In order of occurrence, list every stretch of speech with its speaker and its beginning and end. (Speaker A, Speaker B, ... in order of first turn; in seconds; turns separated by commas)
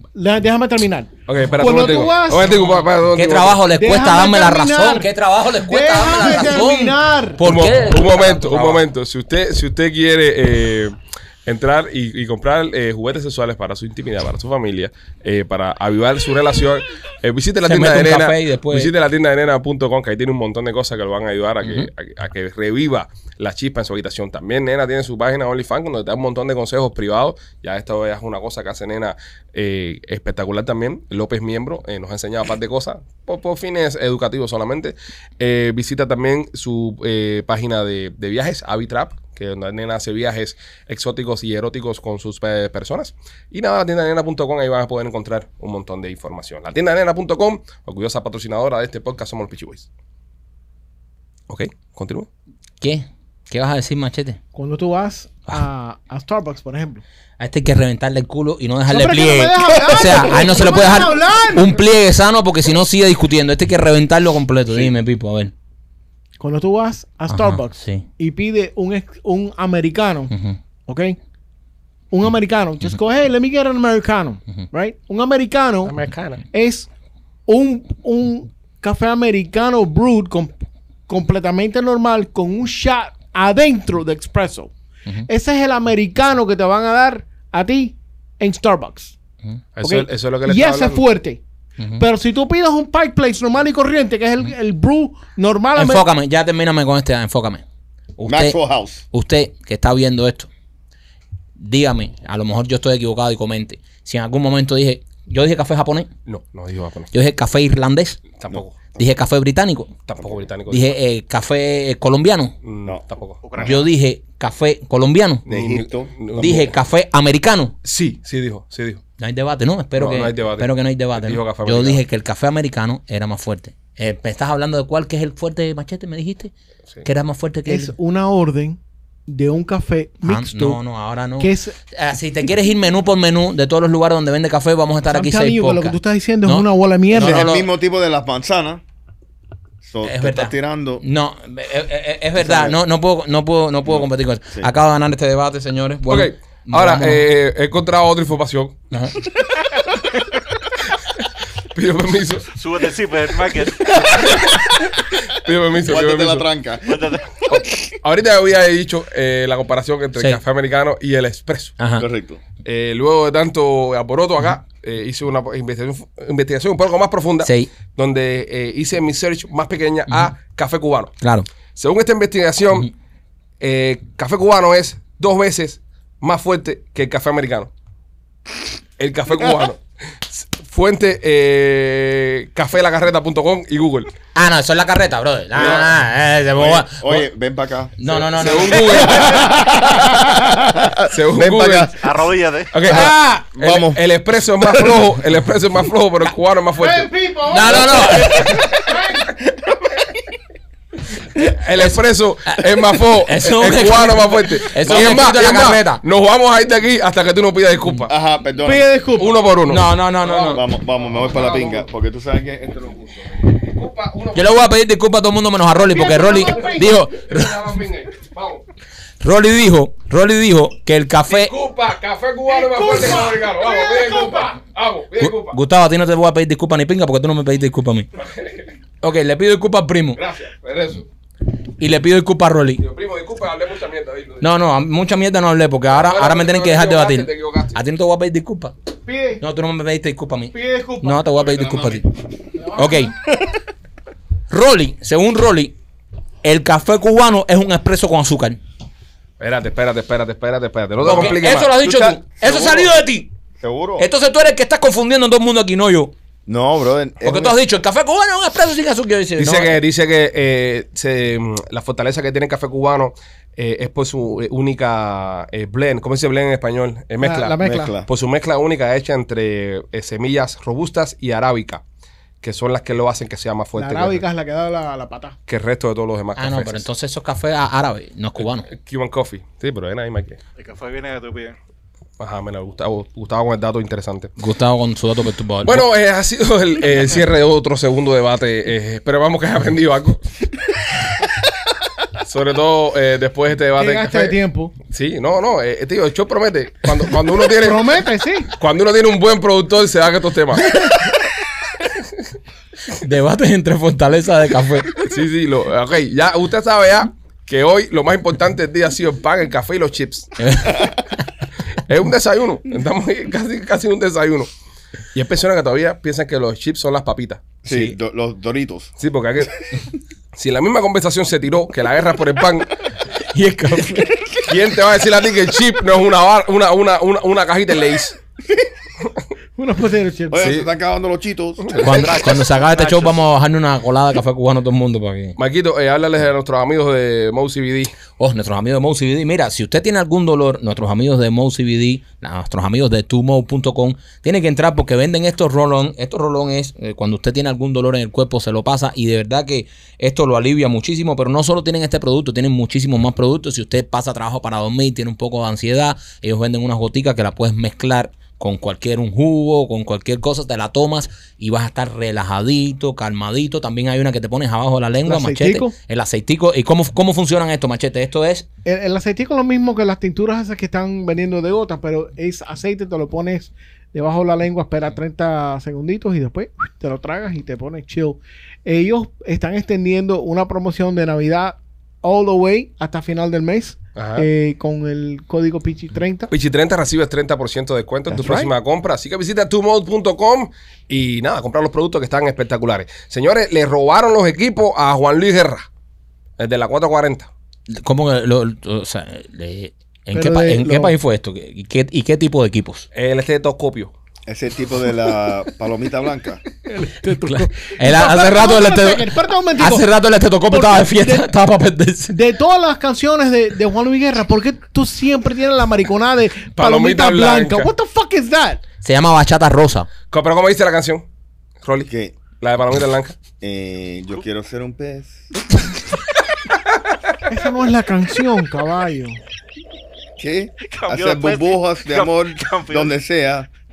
Speaker A: 0.1-2.7, Speaker B: 1.3-3.6, Speaker C: 3.1-8.8, Speaker A: 3.7-7.4, Speaker B: 7.4-49.9, Speaker C: 17.6-18.9, Speaker C: 21.6-21.9, Speaker B: 51.5-52.3, Speaker C: 52.8-54.4, Speaker A: 54.5-57.0, Speaker C: 57.4-65.5, Speaker A: 58.9-61.8, Speaker A: 66.4-70.3, Speaker C: 67.3-68.1, Speaker C: 70.3-70.6, Speaker A: 70.9-71.2, Speaker A: 72.1-75.9, Speaker B: 75.8-76.4, Speaker A: 76.5-76.9, Speaker A: 77.5-84.7, Speaker A: 85.3-89.1, Speaker B: 89.8-91.0, Speaker A: 89.8-91.4, Speaker C: 91.8-92.0, Speaker A: 92.0-96.1, Speaker C: 95.8-97.6, Speaker C: 98.2-98.6, Speaker D: 98.3-99.0, Speaker C: 99.1-100.5, Speaker C: 101.6-106.1, Speaker B: 106.3-107.1, Speaker C: 107.1-108.2, Speaker B: 108.4-108.8, Speaker C: 109.0-109.9, Speaker B: 110.1-111.0, Speaker C: 110.7-112.5, Speaker B: 112.6-113.4, Speaker E: 113.4-113.9, Speaker C: 113.6-115.4, Speaker D: 115.5-116.7, Speaker B: 115.5-116.7, Speaker C: 116.4-117.7, Speaker B: 117.8-119.0, Speaker C: 119.2-126.5, Speaker B: 120.0-122.0, Speaker C: 127.0-127.9, Speaker A: 127.7-130.8, Speaker C: 130.2-137.7, Speaker A: 131.4-131.8, Speaker A: 135.1-137.5, Speaker D: 137.1-138.8, Speaker D: 139.8-141.0, Speaker C: 140.0-147.3, Speaker D: 142.4-142.8, Speaker D: 143.9-144.7, Speaker B: 146.1-148.8, Speaker B: 151.7-152.5, Speaker E: 152.6-154.2, Speaker B: 154.2-154.7, Speaker B: 155.3-156.5, Speaker D: 155.8-157.6, Speaker E: 156.8-157.3, Speaker B: 157.5-161.8, Speaker C: 161.8-162.1, Speaker D: 162.0-162.4, Speaker B: 162.6-171.2, Speaker C: 167.4-167.7, Speaker C: 171.2-171.5, Speaker B: 171.8-172.9, Speaker B: 173.6-177.7, Speaker B: 179.0-184.1, Speaker C: 184.3-187.3, Speaker D: 185.6-185.9, Speaker B: 185.6-185.9, Speaker D: 186.6-191.9, Speaker C: 188.0-189.3, Speaker B: 188.1-189.5, Speaker B: 191.1-191.9, Speaker E: 191.9-192.7, Speaker B: 192.7-197.1, Speaker D: 192.9-194.0, Speaker A: 196.8-199.3, Speaker C: 197.5-198.7, Speaker B: 201.4-208.1, Speaker C: 202.5-206.0, Speaker D: 208.1-208.9, Speaker A: 208.6-209.4, Speaker B: 209.2-210.5, Speaker C: 209.7-210.6, Speaker D: 210.3-213.4, Speaker B: 211.2-211.8, Speaker B: 213.5-214.7, Speaker C: 214.3-217.7, Speaker A: 215.8-216.9, Speaker B: 216.8-218.6, Speaker C: 219.2-221.5, Speaker B: 221.3-225.6, Speaker A: 222.5-224.5, Speaker C: 225.2-228.1, Speaker B: 228.2-228.7, Speaker C: 229.0-230.2, Speaker B: 230.2-231.1, Speaker C: 231.8-232.8, Speaker B: 232.8-234.5, Speaker C: 234.4-238.7, Speaker B: 235.9-237.8, Speaker A: 239.1-239.4, Speaker C: 239.4-242.1, Speaker A: 240.5-241.5, Speaker A: 242.6-243.1, Speaker C: 242.7-243.1, Speaker C: 244.5-245.8, Speaker C: 246.4-248.6, Speaker B: 249.4-251.7, Speaker C: 251.0-253.3, Speaker D: 251.0-253.0, Speaker D: 253.6-254.1, Speaker C: 254.0-256.1, Speaker D: 256.5-257.6, Speaker C: 257.2-259.8, Speaker B: 259.4-271.8, Speaker A: 267.2-267.9, Speaker D: 267.6-268.1, Speaker B: 272.4-274.2, Speaker A: 273.8-275.4, Speaker B: 275.5-276.9, Speaker C: 276.4-278.7, Speaker B: 278.4-280.4, Speaker E: 280.6-281.6, Speaker B: 282.2-284.3, Speaker C: 284.4-285.9, Speaker B: 285.6-290.2, Speaker B: 292.2-294.4, Speaker A: 293.8-294.7, Speaker B: 294.9-298.0, Speaker A: 297.5-298.5, Speaker B: 298.5-300.8, Speaker C: 302.9-304.9, Speaker B: 305.0-310.8, Speaker C: 310.4-310.9, Speaker B: 311.9-314.5, Speaker B: 315.1-317.5, Speaker D: 317.6-318.9, Speaker C: 317.7-317.9, Speaker B: 319.0-319.6, Speaker B: 320.4-322.8, Speaker C: 323.3-324.1, Speaker B: 324.4-328.2, Speaker A: 329.6-330.5, Speaker D: 330.3-331.8, Speaker B: 330.4-330.7, Speaker B: 331.6-332.1, Speaker C: 331.8-335.4, Speaker E: 331.9-333.2, Speaker B: 335.4-337.9, Speaker C: 338.2-368.5, Speaker A: 365.1-365.7, Speaker A: 368.6-386.3, Speaker B: 384.0-384.3, Speaker B: 386.3-395.7, Speaker A: 388.1-388.5, Speaker B: 396.4-397.3, Speaker C: 397.7-402.9, Speaker A: 400.1-400.9, Speaker B: 402.9-403.9, Speaker D: 404.3-406.4, Speaker A: 406.7-409.9, Speaker C: 407.8-412.2, Speaker A: 410.5-411.3, Speaker A: 412.1-418.6, Speaker B: 416.6-417.7, Speaker C: 418.8-419.9, Speaker B: 420.1-421.1, Speaker B: 421.6-423.1, Speaker D: 421.9-422.1, Speaker D: 423.4-425.3, Speaker A: 427.3-429.2, Speaker D: 430.2-433.5, Speaker E: 430.6-432.9